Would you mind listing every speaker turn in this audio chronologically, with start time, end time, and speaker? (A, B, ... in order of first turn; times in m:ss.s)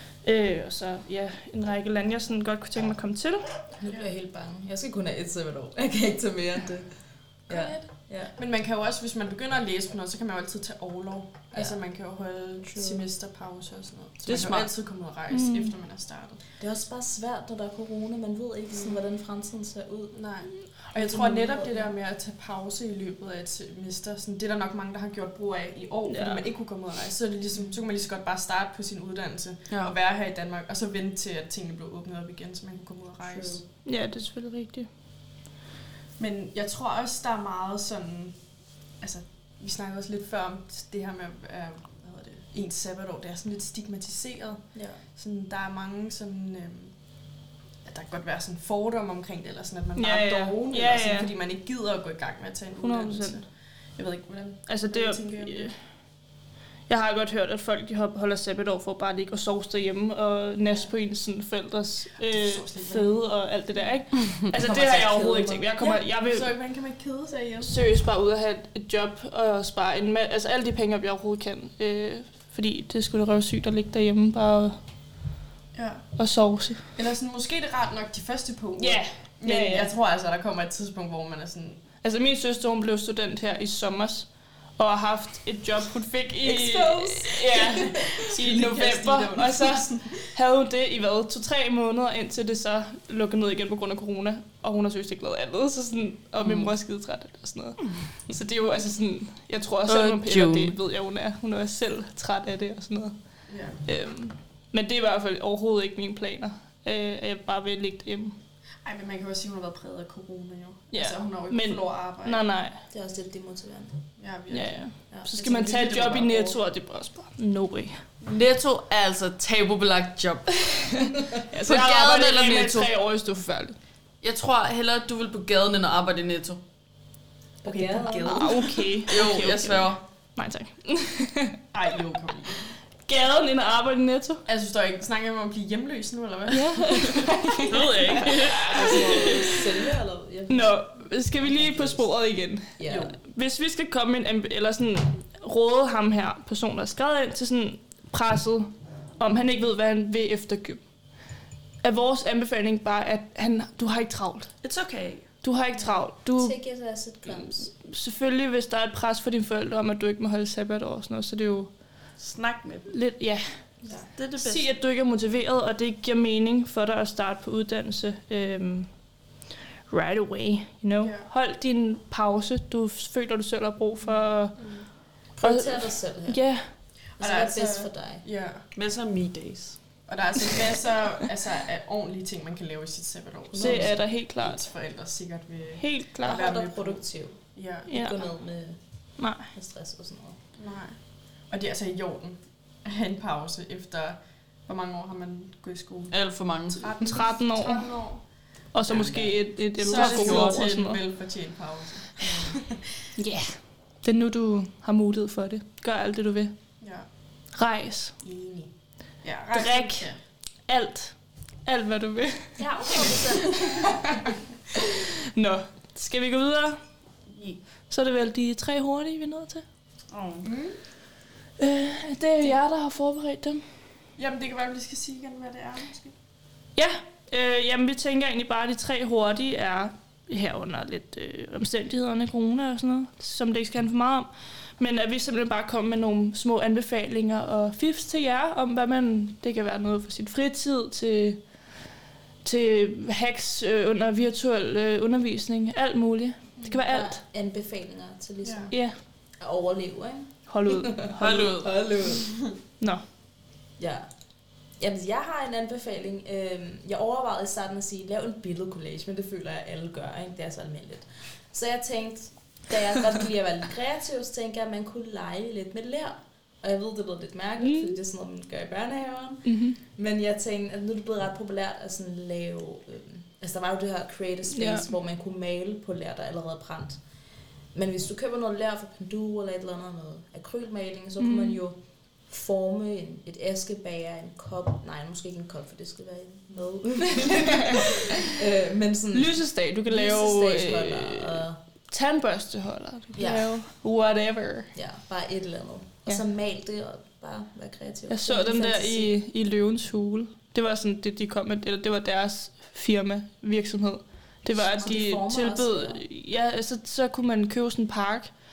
0:00.2-0:03.5 A
0:03.8-0:08.3 B
0:08.4-0:16.4 C
0:12.6-0:13.1 B
0:14.3-0:14.7 D
0:15.3-0:15.8 A
0:16.6-0:21.9 B
0:18.7-0:19.0 C
0:20.1-0:33.6 C
0:26.1-0:26.4 A
0:29.7-0:30.0 D
0:33.2-0:33.6 B
0:33.8-0:34.9 A
0:36.2-0:38.4 C
0:39.0-0:46.9 C
0:44.7-0:45.0 B
0:47.8-0:55.7 C
0:50.0-0:51.3 A
0:52.8-0:53.4 A
0:54.7-0:55.7 A
0:56.9-1:06.5 A
1:02.3-1:03.3 C
1:04.6-1:05.7 B
1:05.8-1:07.8 C
1:07.6-1:14.8 A
1:15.7-1:16.1 C
1:16.2-1:16.8 A
1:16.9-1:21.8 C
1:18.8-1:19.9 A
1:22.0-1:43.2 A
1:26.4-1:30.2 C
1:39.9-1:40.8 D
1:43.5-1:43.8 C
1:43.8-1:48.4 A
1:48.8-1:52.4 C
1:50.9-1:52.8 A
1:52.9-1:54.0 B
1:54.2-1:56.6 C
1:54.5-1:58.0 A
1:58.2-2:01.0 D
2:01.4-2:03.8 A
2:01.6-2:02.9 D
2:04.2-2:06.6 D
2:07.6-2:08.5 B
2:07.6-2:08.7 C
2:08.3-2:11.6 A
2:09.1-2:10.0 D
2:11.7-2:12.7 C
2:13.0-2:14.4 A
2:14.5-2:17.6 C
2:16.5-2:19.5 A
2:17.7-2:18.9 D
2:18.7-2:22.1 B
2:18.8-2:19.5 C
2:20.5-2:30.8 A
2:22.8-2:23.2 B
2:31.8-2:34.5 A
2:34.6-2:35.3 D
2:35.4-2:36.6 A
2:36.4-2:37.7 B
2:37.3-2:41.7 A
2:42.2-2:43.0 D
2:42.9-2:43.6 A
2:44.1-2:44.7 D
2:44.4-2:48.9 A
2:49.9-2:54.7 A
2:51.0-2:51.3 C
2:54.6-2:54.9 C
2:55.4-2:58.2 B
2:55.4-2:56.7 A
2:57.2-2:58.6 C
2:58.8-2:59.8 D
3:00.1-3:07.0 C
3:03.5-3:04.0 B
3:03.6-3:04.6 A
3:05.8-3:06.4 A
3:06.2-3:08.8 B
3:07.5-3:07.9 C
3:07.9-3:08.2 A
3:09.2-3:09.5 A
3:09.5-3:10.4 B
3:10.6-3:16.2 C
3:16.1-3:17.0 D
3:16.7-3:18.3 C
3:17.0-3:18.0 A
3:18.7-3:21.0 A
3:18.9-3:19.2 D
3:18.9-3:19.2 C
3:19.8-3:22.9 C
3:19.8-3:20.6 D
3:22.2-3:22.5 D
3:23.2-3:26.6 A
3:26.8-3:27.1 C
3:27.5-3:28.2 A
3:28.2-3:30.2 C
3:29.5-3:33.9 A
3:32.6-3:34.0 B
3:34.8-3:36.8 A
3:37.9-3:39.6 A
3:40.1-3:40.5 D
3:40.4-3:40.8 C
3:41.6-3:43.6 A
3:44.2-3:46.1 C
3:46.8-4:01.4 A
4:02.4-4:07.2 A
4:06.8-4:12.4 B
4:08.4-4:08.7 C
4:08.7-4:09.0 A
4:10.5-4:11.6 A
4:11.2-4:11.8 D
4:13.8-4:14.1 B
4:14.8-4:37.0 B
4:27.6-4:28.0 A
4:29.5-4:29.8 A
4:34.5-4:34.9 A
4:37.7-4:51.6 B
4:41.2-4:41.6 A
4:47.2-4:47.8 A
4:49.1-4:54.7 A
4:53.2-4:53.5 B
4:54.7-4:59.1 B
4:58.1-5:08.3 A
5:04.5-5:06.0 B